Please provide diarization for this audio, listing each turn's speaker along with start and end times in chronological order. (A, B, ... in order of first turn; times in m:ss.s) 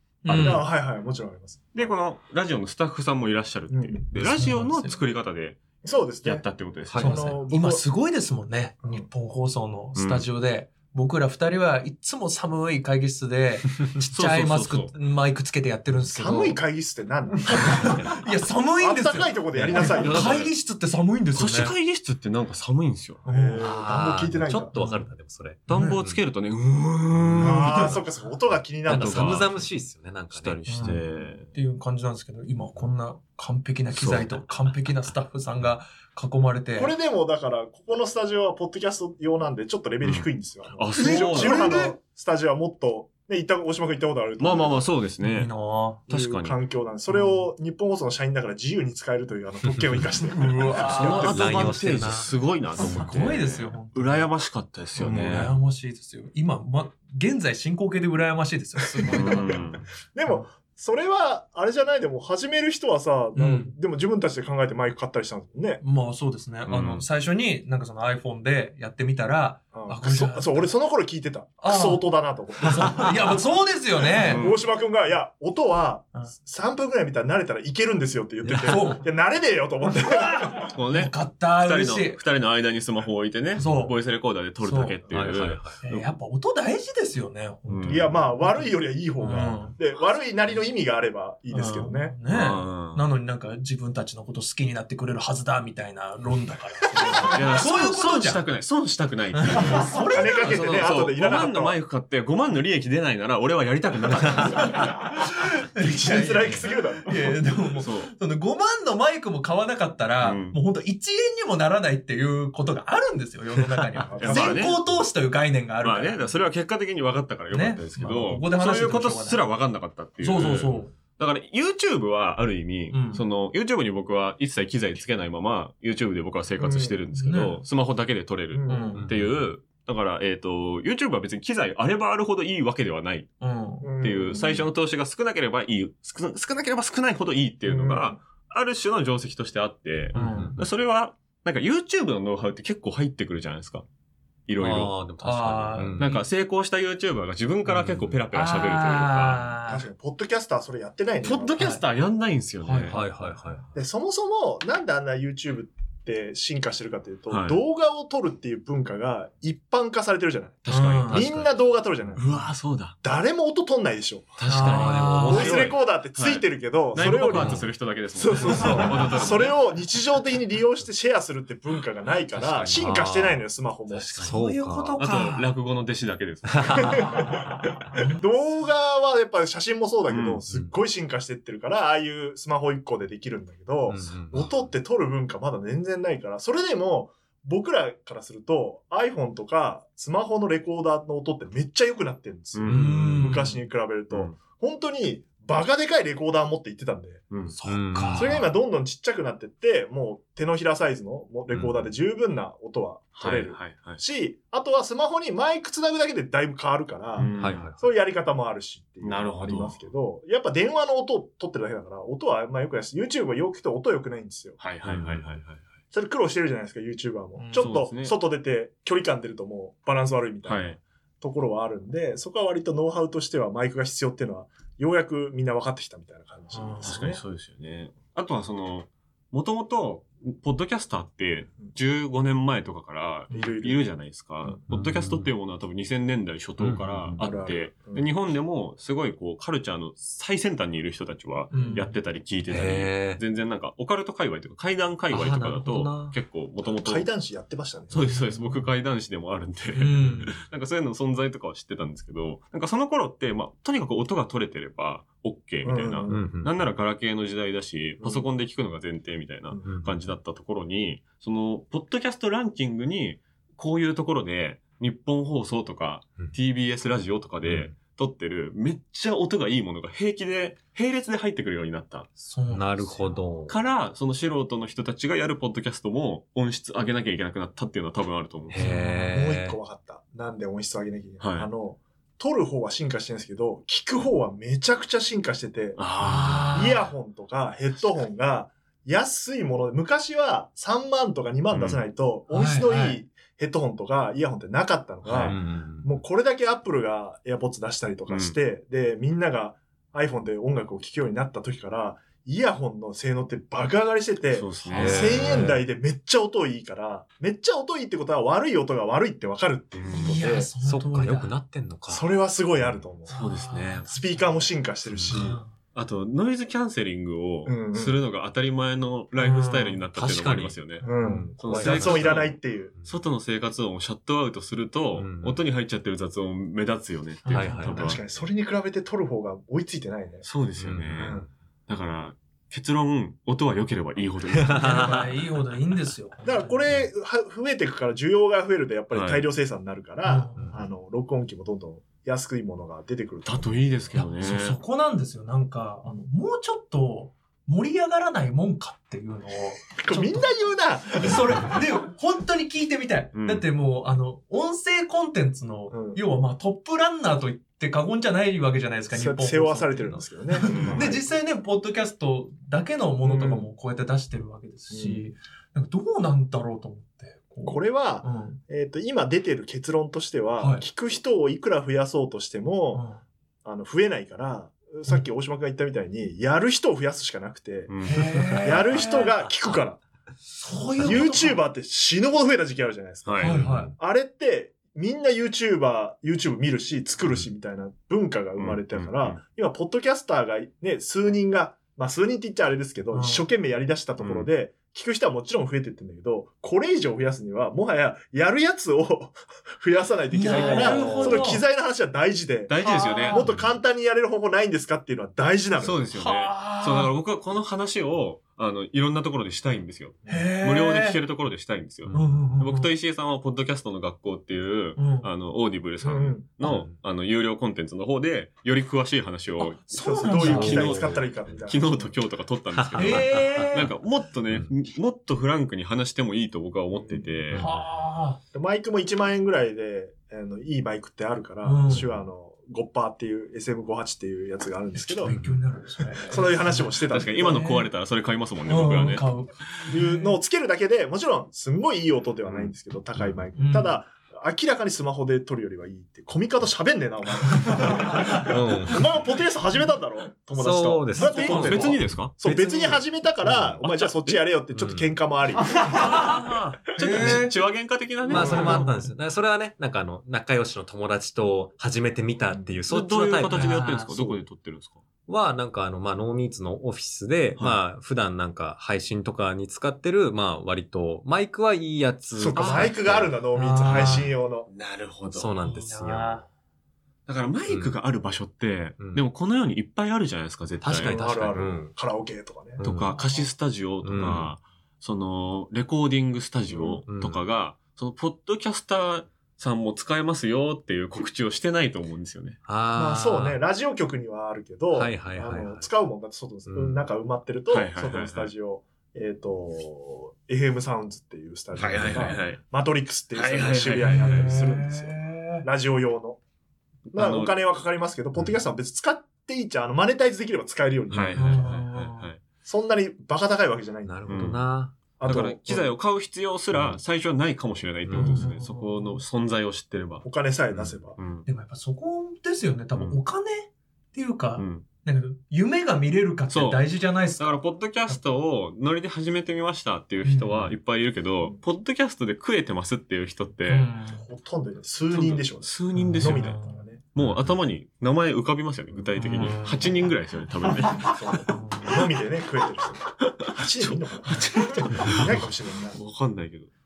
0:00.2-0:00.7 A
0:00.3-0:01.9 B
0:00.4-0:00.6 C
0:01.7-0:05.6 C
0:03.7-0:04.1 B
0:04.2-0:05.0 A
0:05.8-0:06.4 B
0:06.2-0:07.4 C
0:07.0-0:07.8 B
0:07.0-0:16.6 A
0:10.0-0:10.3 C
0:14.0-0:14.9 C
0:16.1-0:18.1 B
0:17.5-0:21.7 A
0:17.7-0:18.2 D
0:18.8-0:20.4 B
0:19.5-0:20.5 D
0:20.1-0:20.3 C
0:21.4-0:23.2 C
0:23.2-0:23.7 A
0:23.2-0:24.8 B
0:23.6-0:26.2 D
0:24.7-0:25.1 A
0:25.7-0:26.0 A
0:25.7-0:28.0 C
0:27.2-0:28.0 D
0:27.4-0:29.6 B
0:28.8-0:31.0 D
0:28.9-0:29.6 C
0:30.3-0:31.5 C
0:30.7-0:36.9 A
0:33.9-0:34.3 C
0:36.8-0:44.8 B
0:40.0-0:41.9 C
0:40.9-0:42.0 A
0:44.4-0:45.5 C
0:45.2-0:46.0 A
0:46.1-0:46.6 C
0:46.1-0:51.3 B
0:47.1-0:47.5 A
0:50.3-0:51.8 A
0:50.7-0:55.5 C
0:51.3-0:52.3 D
0:52.8-0:54.3 A
0:55.0-0:59.6 A
0:58.9-1:05.8 B
0:59.1-0:59.8 C
1:03.4-1:03.8 A
1:05.8-1:10.7 A
1:06.7-1:07.0 C
1:09.7-1:13.4 B
1:11.6-1:12.0 A
1:12.6-1:14.5 A
1:14.1-1:20.8 B
1:14.3-1:14.6 C
1:18.4-1:18.7 D
1:18.7-1:19.0 A
1:20.1-1:22.2 A
1:20.7-1:26.1 C
1:23.6-1:24.0 A
1:24.6-1:25.0 A
1:25.1-1:25.8 D
1:25.8-1:29.8 A
1:27.7-1:28.2 C
1:27.9-1:32.2 B
1:31.5-1:38.4 A
1:32.3-1:33.0 C
1:37.0-1:37.4 B
1:37.2-1:45.0 C
1:39.4-1:40.8 A
1:39.6-1:41.8 B
1:44.1-1:47.4 B
1:44.4-1:56.4 A
1:47.8-1:48.1 C
1:50.2-1:50.6 C
1:54.0-1:54.8 B
1:54.2-1:54.8 C
1:55.8-2:13.3 C
1:57.5-1:59.5 A
2:00.2-2:00.9 A
2:02.9-2:03.2 A
2:06.6-2:07.0 B
2:07.1-2:07.6 A
2:08.5-2:09.0 B
2:08.7-2:09.1 A
2:09.0-2:09.5 D
2:13.4-2:13.9 A
2:13.8-2:14.7 B
2:14.0-2:23.8 C
2:17.7-2:18.2 B
2:20.1-2:20.6 A
2:20.1-2:20.6 D
2:24.5-2:24.9 C
2:24.6-2:26.1 D
2:25.2-2:26.2 A
2:26.0-2:29.5 C
2:27.7-2:28.2 D
2:28.3-2:29.9 A
2:29.7-2:31.6 B
2:31.2-2:33.0 C
2:31.6-2:31.8 A
2:32.6-2:33.6 A
2:32.9-2:33.7 D
2:33.7-2:42.2 B
2:37.3-2:37.6 C
2:40.6-2:41.5 C
2:40.7-2:41.2 A
2:42.2-2:43.0 C
2:43.0-2:44.4 B
2:44.4-2:49.6 C
2:44.5-2:45.6 A
2:44.6-2:45.7 D
2:45.2-2:54.3 B
2:47.3-2:47.7 D
2:48.5-2:49.2 A
2:52.3-2:52.9 C
2:52.4-2:53.4 D
2:53.9-2:54.3 C
2:54.2-2:55.0 D
2:54.2-2:55.5 A
2:55.0-2:57.3 C
2:56.6-2:57.1 D
2:56.7-3:17.2 B
2:57.0-2:58.3 A
3:00.1-3:00.4 C
3:00.5-3:00.8 D
3:03.9-3:04.5 D
3:12.5-3:12.8 C
3:12.7-3:13.5 D
3:12.7-3:13.6 A
3:14.1-3:14.4 C
3:17.5-3:18.5 A
3:17.6-3:18.4 D
3:18.2-3:34.6 B
3:21.5-3:21.8 D
3:23.2-3:24.0 C
3:27.2-3:27.7 C
3:27.4-3:27.8 D
3:29.0-3:29.8 C
3:34.6-3:35.6 C
3:34.8-3:35.3 D
3:35.9-3:47.2 B
3:37.4-3:37.7 A
3:37.6-3:38.2 C
3:40.4-3:40.8 C
3:46.5-3:47.0 A
3:46.8-4:07.1 C
3:53.3-3:53.8 B
3:54.7-3:55.3 D
3:56.6-3:57.3 D
3:57.2-3:58.1 B
4:01.5-4:01.9 A
4:02.5-4:03.2 D
4:05.1-4:06.2 D
4:06.6-4:08.0 B
4:07.9-4:32.1 C
4:08.0-4:08.6 A
4:09.7-4:10.4 A
4:10.0-4:10.3 D
4:15.6-4:16.3 B
4:16.1-4:16.5 D
4:19.5-4:19.8 B
4:19.7-4:19.9 D
4:27.4-4:27.7 D
4:32.2-4:33.2 A
4:32.5-4:33.6 D
4:33.5-4:38.7 C
4:38.5-4:39.6 D
4:38.6-4:39.2 A
4:39.1-4:45.8 B
4:41.2-4:41.5 C
4:45.8-4:46.7 C
4:46.0-4:46.9 A
4:46.0-4:46.5 D
4:46.5-5:10.5 B
4:51.5-4:51.8 C
4:52.3-4:53.0 A
4:55.0-4:55.4 C
4:55.1-4:56.0 D
4:58.1-4:58.4 C
5:04.3-5:05.4 C
5:04.7-5:05.6 D
5:04.8-5:05.5 A
5:09.8-5:10.2 C
5:10.0-5:11.4 A
5:10.6-5:12.1 D
5:11.9-5:13.2 B
5:13.1-5:14.4 A
5:13.1-5:13.9 C
5:13.9-5:15.4 B
5:14.9-5:15.2 D
5:15.1-5:15.5 A
5:15.7-5:20.8 C
5:17.5-5:18.0 B
5:19.2-5:19.8 A
5:20.0-5:23.0 D
5:20.8-5:22.7 B
5:21.0-5:21.3 A
5:21.4-5:28.0 C
5:25.0-5:25.4 D
5:27.2-5:28.0 A
5:27.3-5:28.0 D
5:27.7-5:30.3 B
5:30.2-5:35.0 C
5:30.6-5:31.3 D
5:31.0-5:31.3 B
5:34.4-5:35.2 D
5:34.5-5:36.6 A
5:36.2-5:43.6 B
5:38.9-5:39.3 C
5:40.0-5:40.6 A
5:40.4-5:40.6 D
5:43.2-5:44.6 C
5:44.0-6:08.4 A
5:49.8-5:51.6 B
5:53.1-5:53.4 C
5:55.7-5:56.0 B
5:58.9-6:01.1 B
6:00.4-6:00.9 C
6:03.0-6:03.5 B
6:04.7-6:05.0 B
6:07.5-6:12.9 B
6:10.4-6:10.6 A
6:12.7-6:13.0 A
6:13.4-6:19.8 B
6:17.7-6:18.7 C
6:17.8-6:19.1 A
6:20.4-6:21.4 A
6:20.8-6:45.8 B
6:23.0-6:23.5 C
6:23.2-6:23.7 A
6:23.3-6:23.7 D
6:28.4-6:29.2 C
6:32.9-6:33.3 A
6:34.0-6:34.3 C
6:40.1-6:41.4 A
6:40.3-6:41.2 D
6:40.3-6:41.3 C
6:42.5-6:43.3 C
6:42.6-6:43.3 A
6:45.6-7:07.4 C
6:45.9-6:46.9 A
6:50.1-6:51.0 A
6:51.9-6:52.4 D
6:51.9-6:52.7 A
6:54.8-6:55.1 A
6:55.8-6:56.3 B
6:56.4-6:56.8 D
6:59.4-7:00.8 A
6:59.8-7:02.0 B
7:00.2-7:01.3 D
7:02.6-7:03.5 D
7:02.8-7:03.7 A
7:06.8-7:07.1 B
7:07.3-7:07.7 D
7:07.4-7:08.2 A
7:08.3-7:15.2 B
7:11.4-7:11.9 A
7:14.8-7:17.7 A
7:15.1-7:15.4 D
7:16.0-7:17.4 B
7:16.9-7:19.6 C
7:18.5-7:20.2 A
7:19.7-7:36.0 B
7:22.3-7:22.5 C
7:23.0-7:23.3 D
7:23.4-7:23.8 A
7:27.5-7:28.2 A
7:28.1-7:28.9 D
7:30.3-7:33.6 D
7:31.0-7:31.5 A
7:31.2-7:32.1 C
7:33.6-7:34.2 C
7:34.5-7:34.9 D
7:35.6-7:36.2 A
7:35.6-7:38.6 C
7:36.7-7:37.4 A
7:38.1-7:44.2 D
7:38.1-7:38.9 A
7:38.1-7:38.6 B
7:42.3-7:42.6 B
7:42.7-7:44.8 C
7:43.3-7:43.9 A
7:45.1-7:53.2 D
7:52.2-7:54.5 B
7:52.4-7:52.7 C
7:53.3-7:54.1 A
7:53.7-7:54.0 D
7:53.7-7:55.3 C
7:55.1-7:56.2 D
7:55.4-7:56.3 A
7:57.1-8:01.0 C
7:57.5-7:57.8 D
8:00.6-8:01.7 D
8:00.8-8:02.6 B
8:02.6-8:02.9 D
8:02.6-8:12.4 C
8:02.9-8:03.3 A
8:03.8-8:04.3 D
8:06.5-8:06.8 B
8:06.9-8:07.2 D
8:12.4-8:13.4 D
8:12.7-8:26.2 B
8:14.7-8:15.7 D
8:16.5-8:16.8 D
8:17.5-8:18.3 C
8:21.6-8:22.4 C
8:21.7-8:22.2 D
8:23.1-8:24.3 C
8:23.8-8:25.5 A
8:26.9-8:27.4 C
8:26.9-8:31.5 B
8:30.9-8:31.2 D
8:30.9-8:32.2 C
8:31.2-8:32.1 A
8:32.4-8:34.4 B
8:33.8-8:34.8 D
8:34.1-8:34.4 C
8:35.0-8:35.7 B
8:35.0-8:41.3 C
8:37.8-8:38.2 D
8:37.9-8:39.0 A
8:40.0-8:41.0 B
8:41.3-8:48.0 A
8:42.7-8:43.0 C
8:44.4-8:44.6 C
8:46.3-8:46.7 C
8:47.2-8:53.7 C
8:50.0-8:50.4 A
8:53.5-8:54.1 A
8:53.9-8:56.8 B
8:54.9-8:56.4 C
8:55.7-8:56.6 A
8:57.0-9:01.2 C
8:57.0-8:57.3 D
8:59.0-8:59.9 A
9:00.8-9:05.8 B
9:01.3-9:01.8 A
9:03.0-9:06.5 C